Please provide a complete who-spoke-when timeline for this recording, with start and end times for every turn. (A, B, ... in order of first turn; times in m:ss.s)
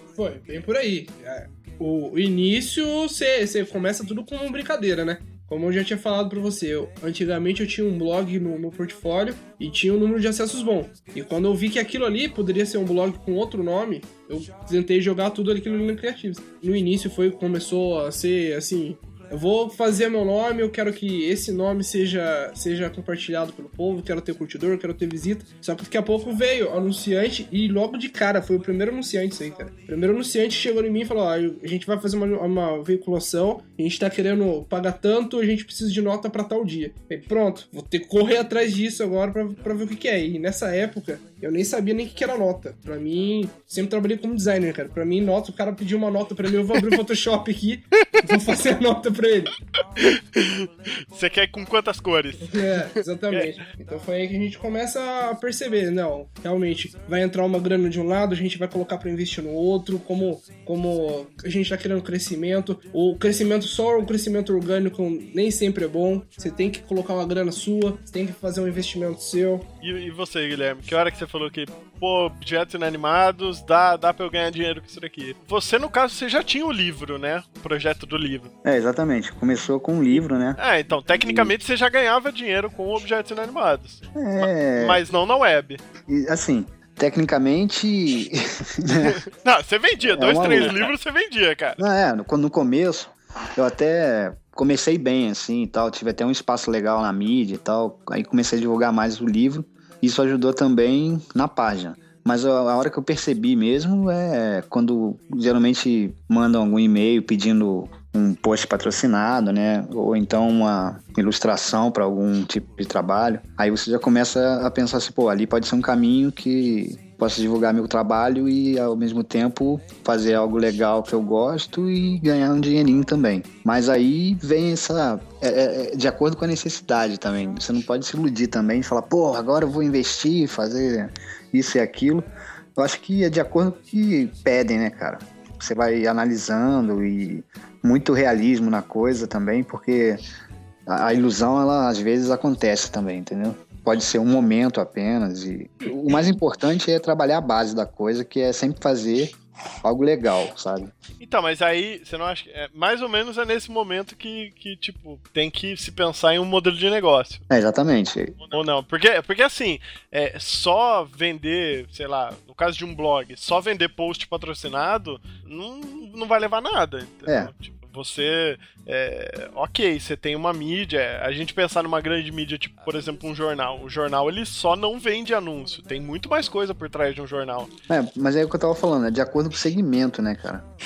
0:00.1-0:49.5 A
0:50.0-0:53.5 B
0:52.5-1:09.6 A
1:09.8-1:18.5 B
1:18.6-1:21.5 C
1:20.6-1:25.8 B
1:24.1-1:25.0 C
1:26.1-1:29.2 C
1:29.0-1:31.8 B
1:30.0-1:30.9 C
1:31.8-2:20.2 C
2:20.9-2:30.9 C
2:31.2-2:37.4 B
2:37.5-2:38.4 C
2:38.4-2:57.7 B
2:47.2-2:47.5 C
2:57.9-3:00.6 C